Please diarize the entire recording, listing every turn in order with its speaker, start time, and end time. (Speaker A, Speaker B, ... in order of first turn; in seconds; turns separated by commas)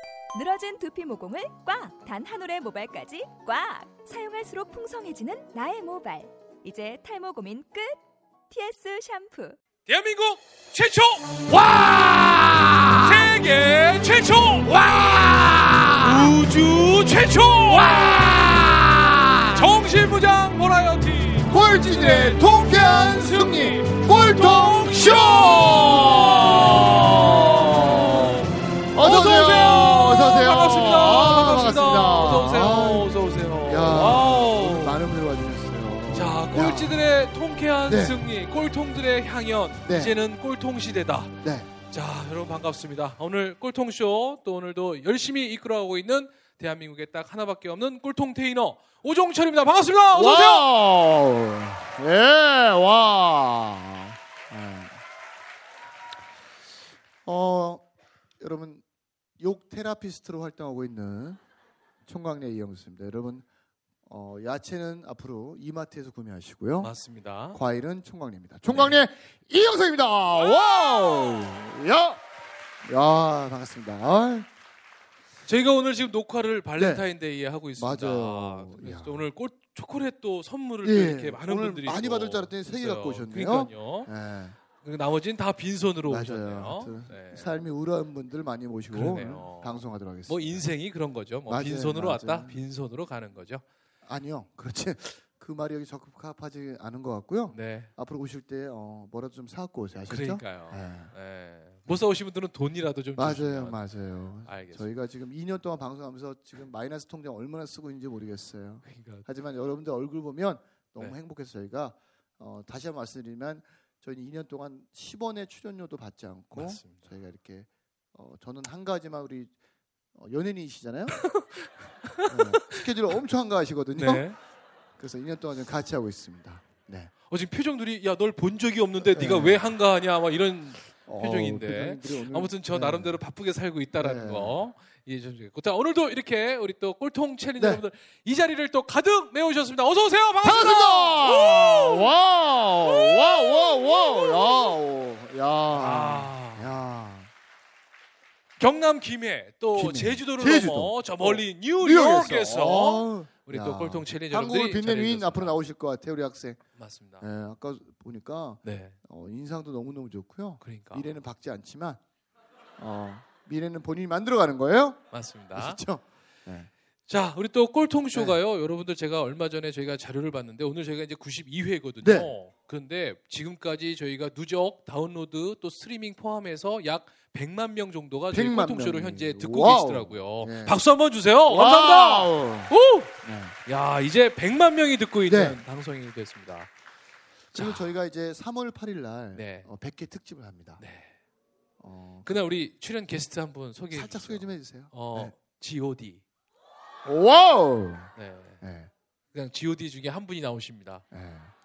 Speaker A: 0.3-8.0, Speaker A: 8.5-9.6, Speaker B: 9.9-12.4, Speaker C: 11.5-13.3, Speaker B: 12.9-14.8, Speaker C: 14.6-16.5, Speaker B: 16.0-18.2, Speaker C: 17.6-19.9, Speaker B: 19.5-35.0, Speaker C: 21.5-28.1, Speaker C: 28.9-37.0, Speaker B: 36.1-41.4, Speaker C: 37.9-38.2, Speaker C: 39.9-40.1, Speaker C: 41.4-41.7, Speaker B: 41.9-50.7, Speaker C: 50.1-55.0, Speaker C: 57.2-57.9, Speaker C: 58.4-58.8, Speaker C: 59.4-61.4, Speaker C: 62.1-63.5, Speaker C: 64.0-66.9, Speaker B: 66.8-67.6, Speaker C: 67.5-72.2, Speaker B: 68.7-69.0, Speaker C: 72.8-74.5, Speaker B: 75.5-84.1, Speaker C: 76.8-77.1, Speaker C: 77.8-79.3, Speaker C: 80.8-84.6, Speaker B: 84.8-87.6, Speaker C: 86.1-90.6, Speaker B: 88.9-93.6, Speaker C: 91.5-92.6, Speaker C: 94.0-101.1, Speaker B: 97.5-97.9, Speaker B: 100.1-103.8, Speaker C: 103.2-119.5, Speaker B: 104.5-104.9, Speaker B: 108.8-109.2, Speaker B: 116.5-117.1, Speaker C: 120.1-121.3, Speaker B: 121.2-122.8, Speaker C: 122.3-124.3, Speaker B: 124.0-124.4, Speaker C: 125.0-127.1, Speaker B: 127.3-142.1, Speaker C: 129.1-129.7, Speaker C: 131.1-133.2, Speaker C: 134.0-134.6, Speaker C: 140.4-147.3, Speaker B: 143.0-144.7, Speaker B: 145.7-146.7, Speaker B: 148.6-155.6, Speaker C: 149.8-156.6, Speaker B: 156.8-157.2, Speaker C: 157.2-162.0, Speaker B: 158.6-159.0, Speaker B: 160.6-161.2, Speaker C: 162.8-166.7, Speaker B: 165.1-165.8, Speaker B: 167.1-183.1, Speaker C: 172.0-172.3, Speaker C: 178.3-180.8, Speaker C: 181.5-183.6, Speaker B: 183.7-186.7, Speaker C: 185.3-185.6, Speaker B: 187.5-187.9, Speaker C: 187.5-190.8, Speaker B: 189.3-189.7, Speaker B: 190.8-191.1, Speaker C: 191.8-192.4, Speaker B: 192.2-196.2, Speaker C: 193.9-195.3, Speaker C: 197.1-198.9, Speaker B: 198.2-198.6, Speaker B: 199.3-201.1, Speaker C: 201.1-201.5